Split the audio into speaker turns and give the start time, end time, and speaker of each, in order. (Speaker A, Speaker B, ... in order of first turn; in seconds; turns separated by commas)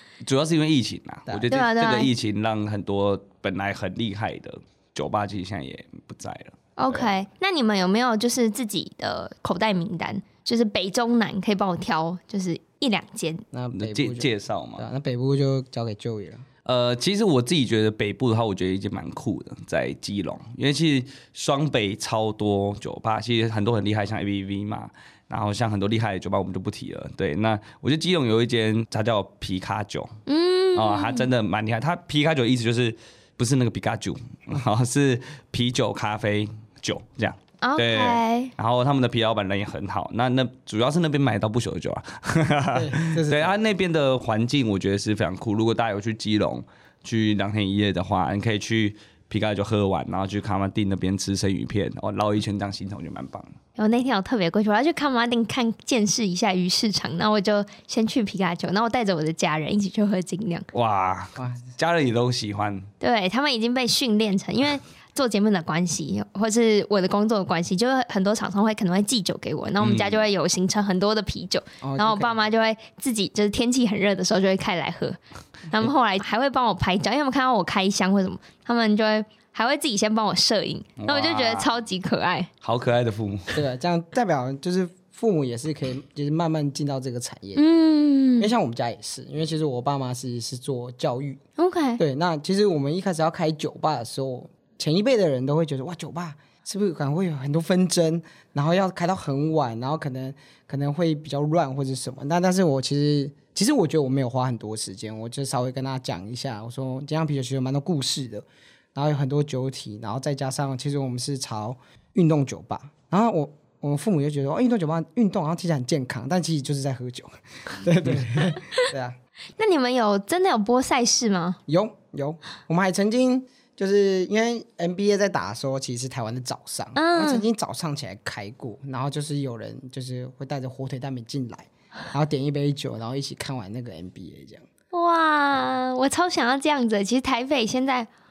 Speaker A: 0.2-7.1, Speaker B: 1.5-2.1, Speaker B: 6.8-13.4, Speaker C: 13.5-16.5, Speaker A: 13.8-14.8, Speaker A: 16.6-30.2, Speaker B: 30.3-31.3, Speaker A: 30.8-53.5, Speaker B: 37.6-38.5, Speaker C: 42.7-43.6, Speaker B: 53.8-60.7, Speaker A: 60.7-62.9, Speaker C: 61.4-61.7, Speaker B: 63.0-75.2, Speaker A: 69.8-70.2, Speaker C: 71.8-72.4, Speaker B: 75.7-82.5, Speaker A: 81.0-81.7, Speaker A: 82.6-83.6, Speaker C: 83.5-87.6, Speaker B: 87.5-88.5, Speaker C: 88.4-91.4, Speaker B: 91.6-92.0, Speaker C: 92.0-119.2, Speaker B: 118.6-118.9, Speaker B: 119.6-121.6, Speaker C: 121.7-134.7, Speaker B: 127.0-127.5, Speaker B: 134.9-138.1